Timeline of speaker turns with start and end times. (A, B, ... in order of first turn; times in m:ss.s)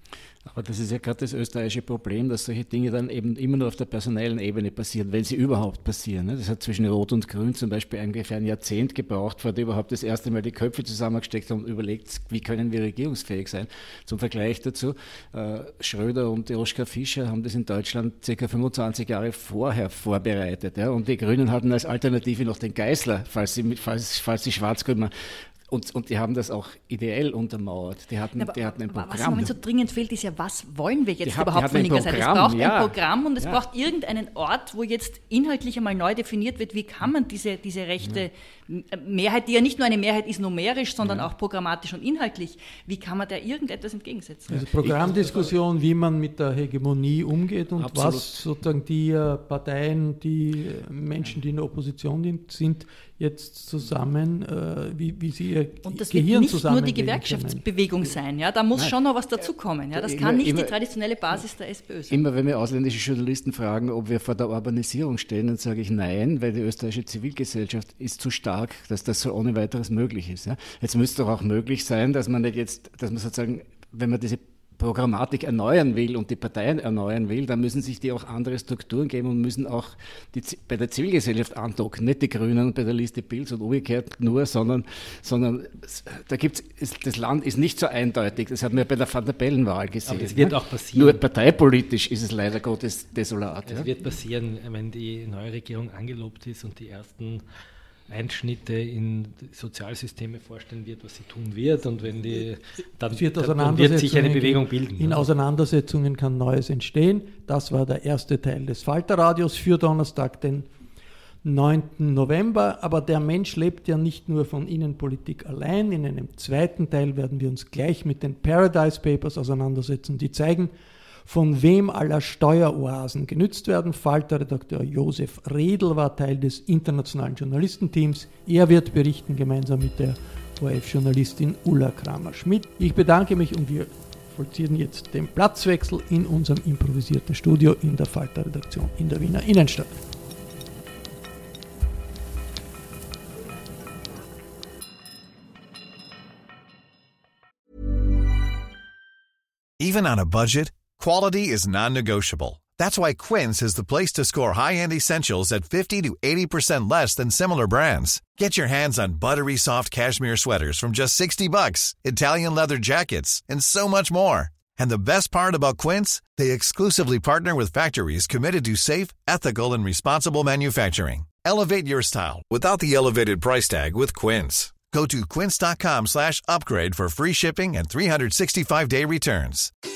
0:00.4-0:25.1 A
0:25.7-0:29.6 A
0:28.4-0:44.6 B
0:31.2-0:33.6 A
0:41.0-0:41.3 A
0:44.5-0:57.6 C
0:44.8-0:45.5 A
0:47.8-0:48.4 A
0:55.8-1:02.2 B
0:58.8-1:00.8 A
1:02.1-1:33.9 A
1:30.1-1:31.2 D
1:33.7-1:37.4 D
1:38.1-1:45.3 D
1:43.1-1:50.7 C
1:51.4-2:00.7 C
2:01.3-2:20.0 C
2:29.8-2:59.7 E